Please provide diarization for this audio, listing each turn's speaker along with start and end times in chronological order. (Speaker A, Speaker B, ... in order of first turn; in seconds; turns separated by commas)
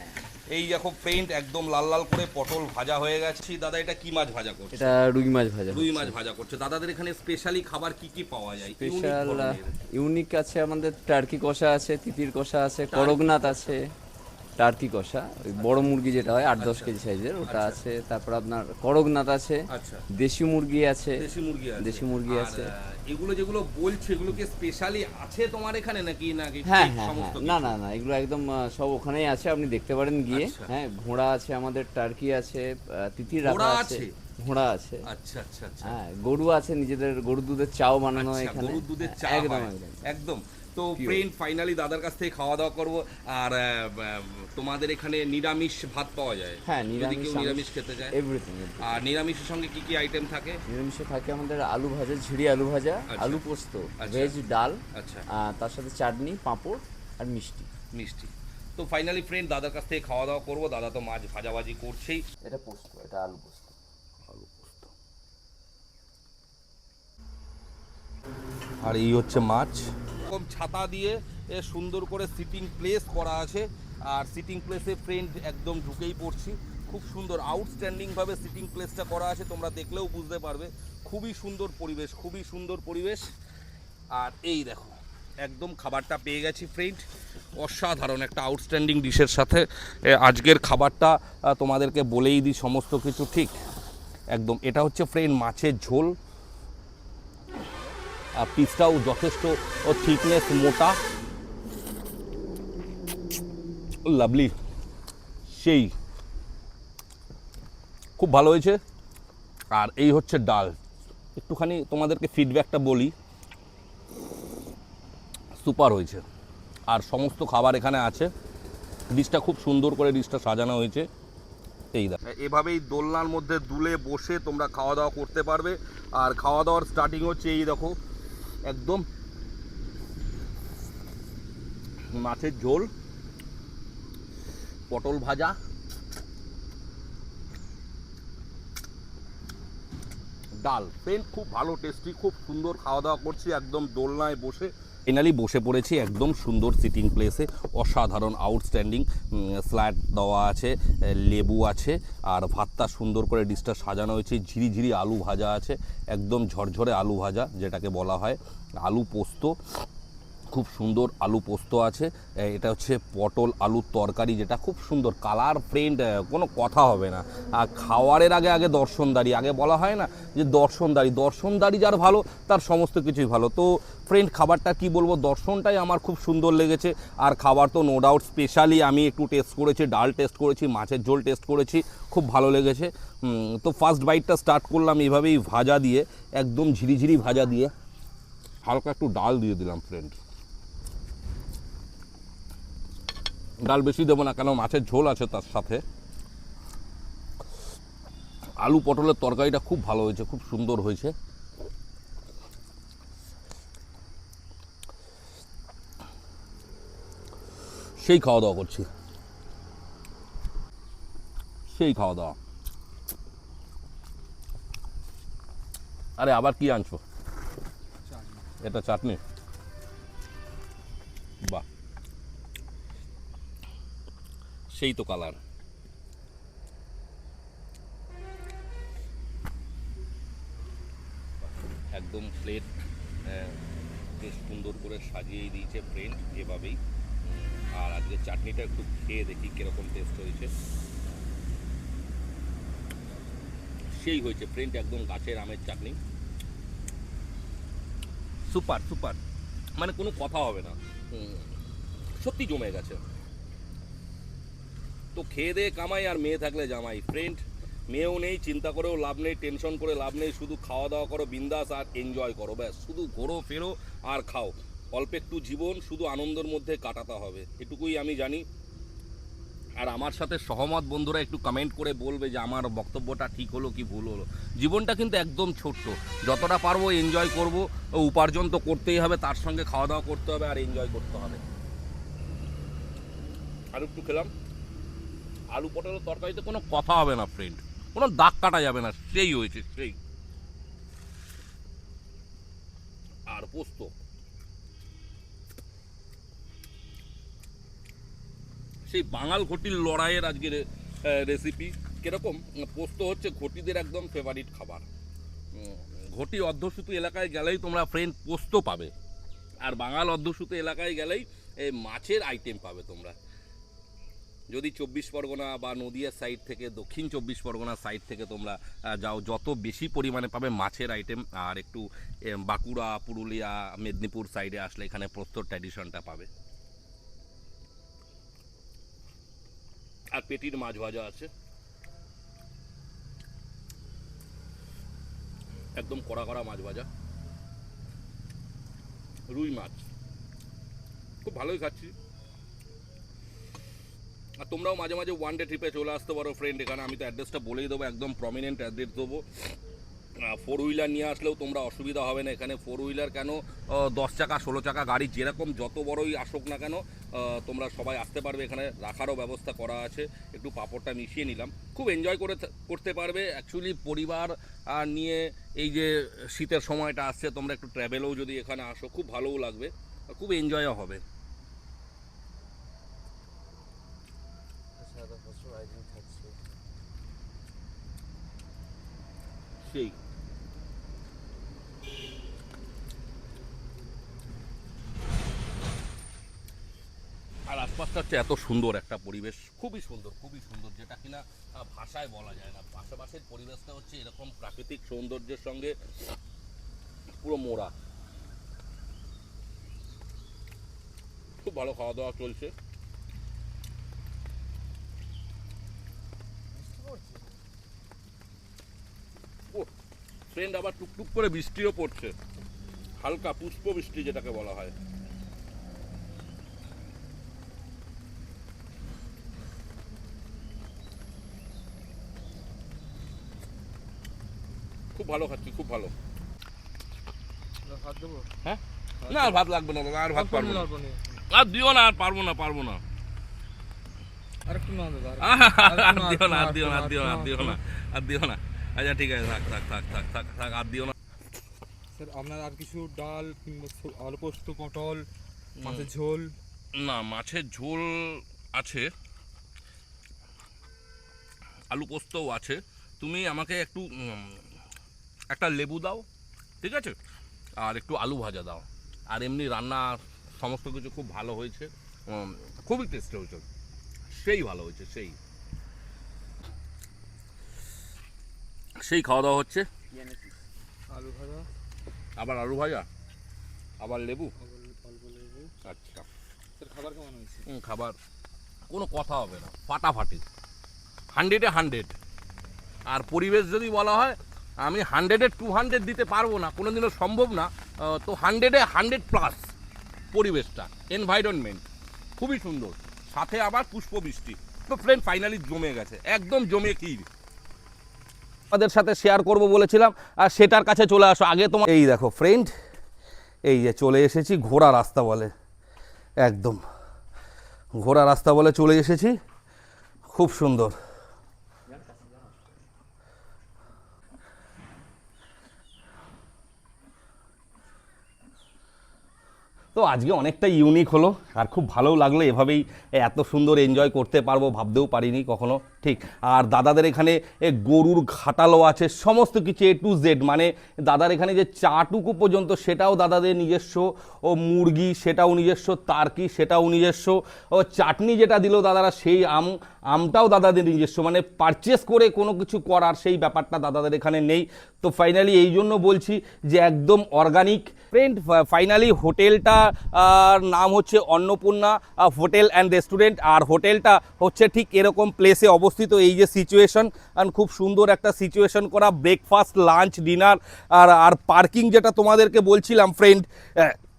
Speaker A: 0.5-4.9, Speaker B: 4.7-6.2, Speaker A: 5.7-9.8, Speaker B: 8.7-13.9, Speaker A: 12.9-13.8, Speaker B: 14.6-21.2, Speaker A: 16.6-17.8, Speaker A: 19.7-20.0, Speaker A: 21.2-27.8, Speaker B: 21.8-22.7, Speaker B: 26.6-35.1, Speaker A: 30.3-30.7, Speaker A: 33.3-34.1, Speaker A: 35.1-36.0, Speaker B: 35.8-40.0, Speaker A: 38.1-48.2, Speaker B: 41.0-41.2, Speaker B: 46.6-49.0, Speaker A: 48.8-50.6, Speaker B: 50.7-57.7, Speaker A: 53.1-53.4, Speaker A: 54.0-54.4, Speaker A: 54.9-55.2, Speaker A: 57.9-62.2, Speaker B: 62.4-63.8, Speaker A: 64.2-64.9, Speaker A: 68.8-83.3, Speaker A: 84.1-87.0, Speaker A: 87.5-93.5, Speaker A: 94.3-96.1, Speaker A: 98.3-101.0, Speaker A: 104.0-104.5, Speaker A: 105.5-105.9, Speaker A: 108.2-108.8, Speaker A: 109.7-110.8, Speaker A: 111.3-113.1, Speaker A: 115.6-116.2, Speaker A: 116.9-118.3, Speaker A: 119.1-121.1, Speaker A: 121.9-128.0, Speaker A: 128.7-129.0, Speaker A: 132.1-132.9, Speaker A: 134.9-135.6, Speaker A: 140.6-159.5, Speaker A: 160.5-187.7, Speaker A: 188.6-190.2, Speaker A: 193.6-195.8, Speaker A: 198.6-201.1, Speaker A: 208.0-208.9, Speaker A: 211.7-212.3, Speaker A: 216.2-217.0, Speaker A: 218.6-219.2, Speaker A: 224.7-225.4, Speaker A: 231.9-232.7, Speaker A: 233.2-233.6, Speaker A: 234.2-236.8, Speaker A: 237.4-240.5, Speaker A: 243.9-246.0, Speaker A: 248.5-249.2, Speaker A: 249.8-251.5, Speaker A: 252.2-253.0, Speaker A: 255.1-268.4, Speaker A: 269.8-281.4, Speaker A: 283.7-284.3, Speaker A: 285.5-290.0, Speaker A: 293.3-293.9, Speaker A: 298.9-304.9, Speaker A: 305.6-308.9, Speaker A: 309.6-313.1, Speaker A: 314.5-326.3, Speaker A: 330.1-331.3, Speaker A: 335.8-336.9, Speaker A: 339.3-339.9, Speaker A: 341.2-341.9, Speaker A: 344.4-349.3, Speaker A: 350.2-371.0, Speaker B: 374.8-376.4, Speaker A: 379.6-380.0, Speaker A: 387.5-395.8, Speaker A: 397.2-397.7, Speaker A: 401.4-402.5, Speaker C: 406.6-407.1, Speaker A: 410.3-412.1, Speaker A: 413.0-414.7, Speaker A: 424.9-425.9, Speaker C: 427.6-428.3, Speaker A: 428.4-430.7, Speaker C: 429.0-429.4, Speaker C: 430.1-431.2, Speaker A: 431.3-432.8, Speaker C: 434.4-437.6, Speaker A: 435.2-440.9, Speaker C: 441.9-445.1, Speaker A: 445.6-445.9, Speaker C: 445.6-446.4, Speaker A: 446.7-448.9, Speaker A: 451.7-454.4, Speaker A: 455.3-456.1, Speaker A: 456.6-456.9, Speaker A: 457.6-463.4, Speaker A: 464.1-465.2, Speaker A: 468.8-469.7, Speaker C: 470.9-471.5, Speaker A: 472.2-472.9, Speaker A: 473.8-474.3, Speaker C: 474.4-475.5, Speaker A: 475.6-476.1, Speaker C: 476.6-477.4, Speaker A: 477.4-478.0, Speaker A: 478.7-480.2, Speaker A: 481.1-481.9, Speaker A: 482.9-489.5, Speaker A: 490.1-491.6, Speaker A: 492.2-497.1, Speaker A: 498.5-502.5, Speaker A: 503.5-505.3, Speaker A: 506.2-506.6, Speaker A: 507.8-509.1, Speaker A: 510.1-510.7, Speaker A: 519.7-563.8